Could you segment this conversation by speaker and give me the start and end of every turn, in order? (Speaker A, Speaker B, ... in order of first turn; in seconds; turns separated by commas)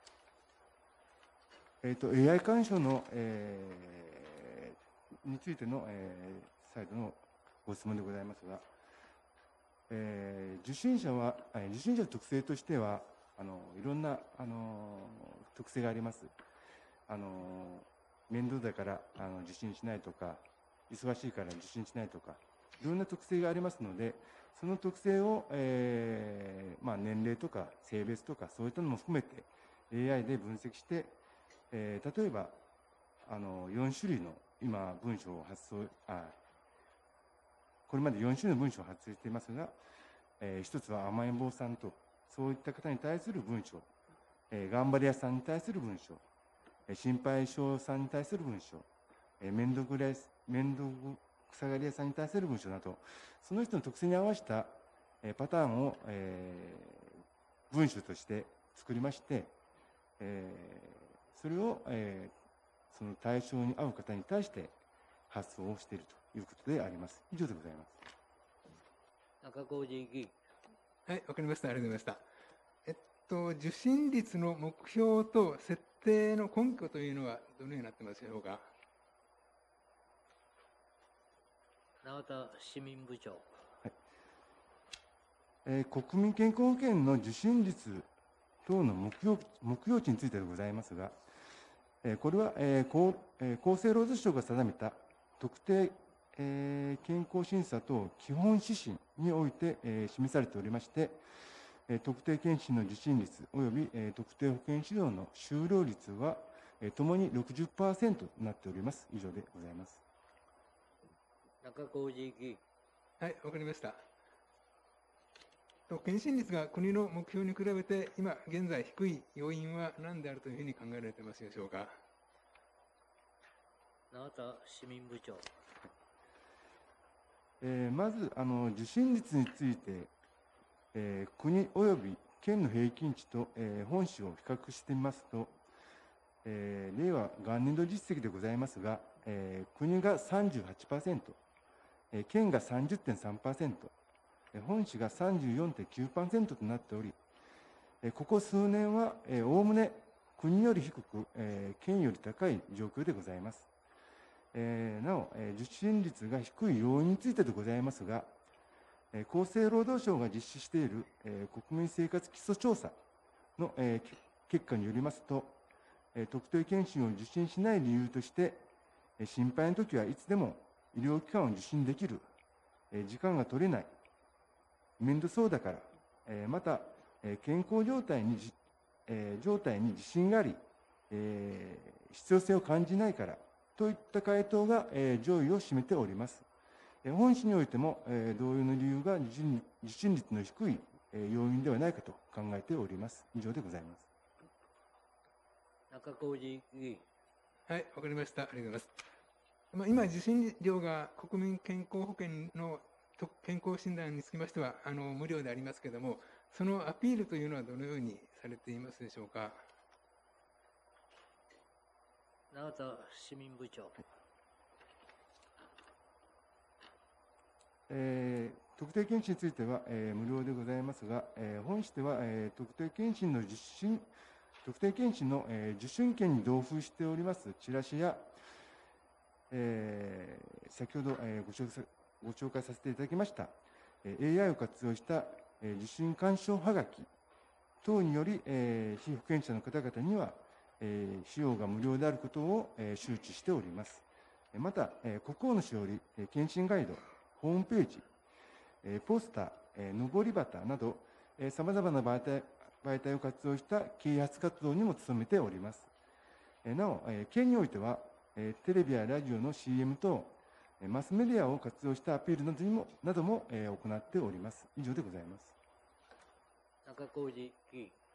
Speaker A: 1.8-8.6, Speaker A: 9.9-16.3, Speaker A: 17.1-31.1, Speaker A: 31.7-32.6, Speaker A: 33.2-36.3, Speaker A: 37.9-39.7, Speaker A: 40.4-43.9, Speaker A: 44.5-46.2, Speaker A: 46.9-48.9, Speaker A: 49.4-59.5, Speaker A: 60.2-62.3, Speaker A: 62.9-64.7, Speaker A: 65.3-68.0, Speaker B: 69.4-70.3, Speaker C: 71.0-72.2, Speaker C: 72.8-78.7, Speaker B: 82.0-83.5, Speaker A: 85.6-88.1, Speaker A: 88.6-91.1, Speaker A: 92.0-101.2, Speaker A: 101.9-110.0, Speaker B: 111.6-112.6, Speaker C: 113.2-114.0, Speaker C: 115.9-122.0, Speaker B: 124.1-125.5, Speaker A: 127.6-130.1, Speaker A: 130.9-135.5, Speaker A: 136.4-141.4, Speaker A: 142.1-143.9, Speaker A: 144.5-147.2, Speaker A: 148.0-153.7, Speaker A: 154.5-158.3, Speaker A: 159.1-162.9, Speaker A: 163.6-165.6, Speaker A: 166.1-168.6, Speaker A: 169.2-172.2, Speaker A: 172.9-173.9, Speaker A: 175.0-178.5, Speaker A: 179.1-180.6, Speaker A: 181.1-186.4, Speaker A: 187.0-194.0, Speaker B: 195.9-197.0, Speaker C: 197.7-198.9, Speaker C: 199.7-209.6, Speaker B: 212.5-214.0, Speaker A: 217.9-224.1, Speaker A: 224.6-228.3, Speaker A: 229.5-237.1, Speaker A: 237.8-248.1, Speaker A: 248.8-255.9, Speaker A: 256.6-265.5, Speaker B: 266.8-267.9